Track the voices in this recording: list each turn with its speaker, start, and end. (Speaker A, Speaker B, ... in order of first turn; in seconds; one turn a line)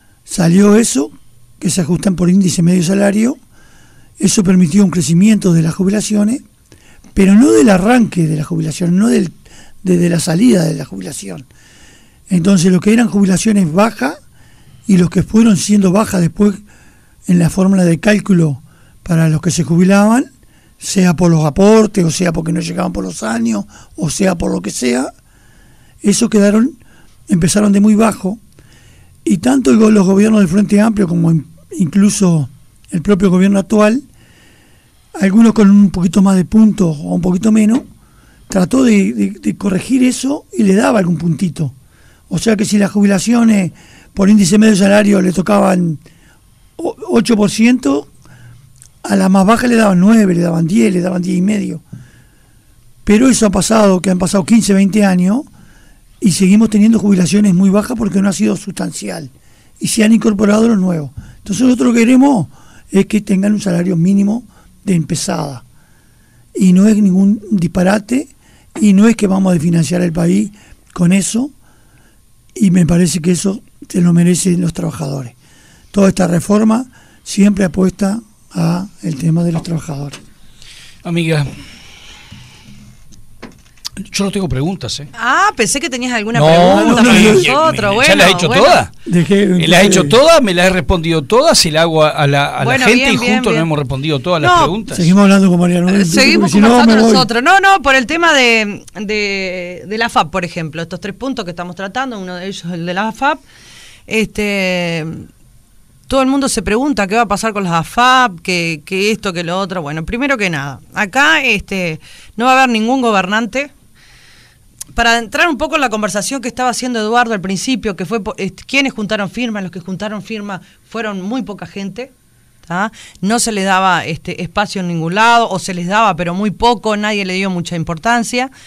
Speaker A: 0.3-3.4
Speaker A: 4.2-6.4
Speaker A: 7.1-11.4
Speaker A: 12.3-14.2
Speaker A: 14.9-16.6
Speaker A: 17.3-20.3
Speaker A: 20.8-25.1
Speaker A: 26.0-26.8
Speaker A: 27.3-28.4
Speaker A: 29.2-34.0
Speaker A: 35.1-37.8
Speaker A: 38.5-41.7
Speaker A: 42.3-46.0
Speaker A: 46.8-48.1
Speaker A: 49.0-51.8
Speaker A: 53.0-55.5
Speaker A: 56.2-65.6
Speaker A: 66.5-71.5
Speaker A: 72.5-75.3
Speaker A: 75.9-80.2
Speaker B: 81.0-81.5
Speaker B: 84.1-85.1
Speaker C: 85.1-88.8
Speaker B: 86.3-88.9
Speaker A: 86.6-87.5
Speaker A: 89.0-90.2
Speaker B: 89.6-95.1
Speaker C: 92.6-93.7
Speaker C: 94.4-94.7
Speaker A: 94.9-97.3
Speaker C: 95.9-103.4
Speaker C: 104.1-105.3
Speaker C: 106.1-113.7
Speaker C: 114.9-122.1
Speaker C: 122.6-128.5